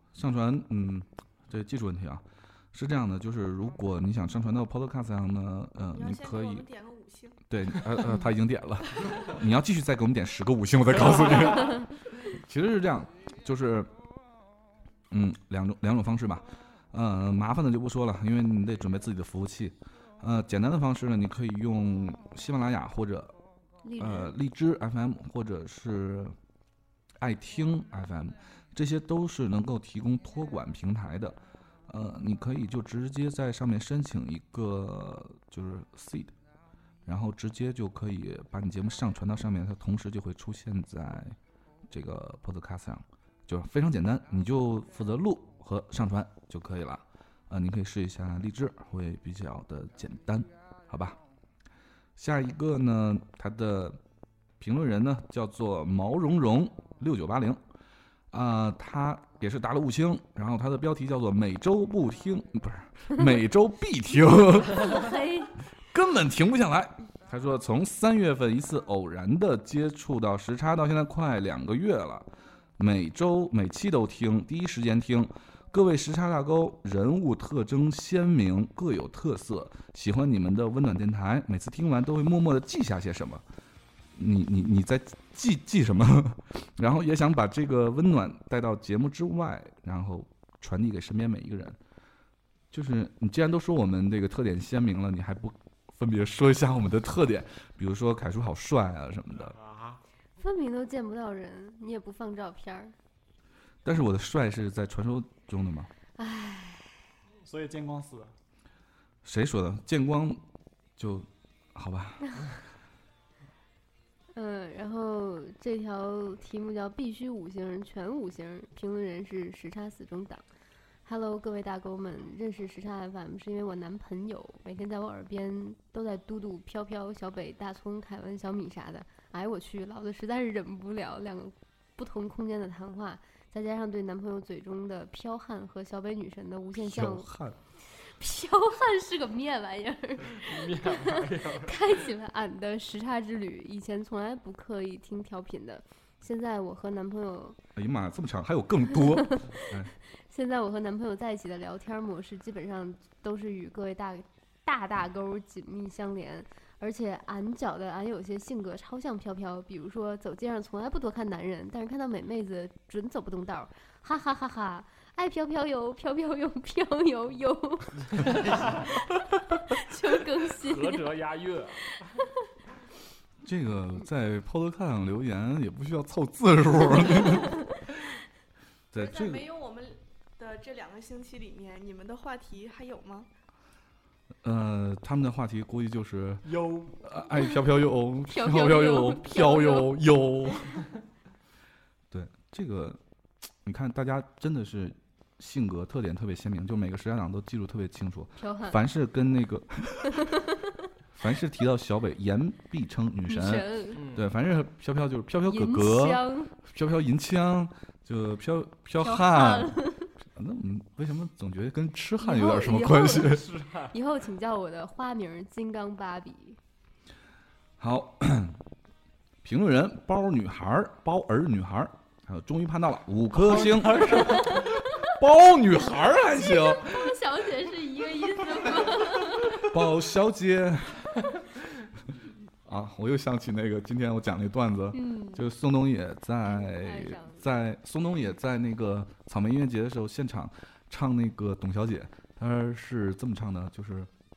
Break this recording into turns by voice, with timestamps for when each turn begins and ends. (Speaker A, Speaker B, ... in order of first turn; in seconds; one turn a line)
Speaker A: 0.1-6.7
Speaker B: 5.9-7.4
Speaker A: 7.5-13.9
Speaker A: 15.1-23.3
Speaker C: 23.8-24.3
Speaker A: 24.0-26.3
Speaker A: 27.2-36.3
Speaker A: 37.0-41.4
Speaker A: 41.9-51.2
Speaker A: 52.2-54.0
Speaker A: 54.6-57.6
Speaker A: 58.3-65.1
Speaker C: 64.8-65.5
Speaker A: 65.9-83.4
Speaker A: 84.1-91.8
Speaker A: 92.7-99.5
Speaker D: 99.4-100.0
Speaker C: 100.4-102.9
Speaker A: 103.8-105.9
Speaker C: 106.2-107.0
Speaker E: 107.4-108.3
Speaker A: 109.2-110.4
Speaker A: 111.0-112.4
Speaker C: 114.3-120.4
Speaker C: 121.0-137.3
Speaker A: 136.8-137.6
Speaker C: 138.0-147.6
Speaker D: 140.3-141.8
Speaker A: 147.8-149.9
Speaker C: 150.2-168.5
Speaker D: 168.1-168.9
Speaker C: 169.7-171.1
Speaker D: 170.5-172.0
Speaker A: 173.4-177.6
Speaker A: 178.9-179.5
Speaker B: 178.9-183.3
Speaker A: 184.4-190.7
Speaker E: 186.4-187.0
Speaker C: 188.3-190.0
Speaker A: 192.1-193.0
Speaker A: 193.6-200.3
Speaker C: 198.4-198.8
Speaker A: 201.2-213.4
Speaker C: 203.3-204.0
Speaker D: 203.9-204.2
Speaker C: 205.4-206.6
Speaker C: 209.0-210.1
Speaker C: 212.2-216.6
Speaker D: 213.2-213.9
Speaker A: 217.8-218.6
Speaker A: 219.4-227.1
Speaker E: 223.4-224.2
Speaker C: 224.2-224.8
Speaker C: 226.1-229.7
Speaker A: 229.6-231.2
Speaker A: 232.6-244.1
Speaker C: 234.9-235.4
Speaker C: 236.4-237.4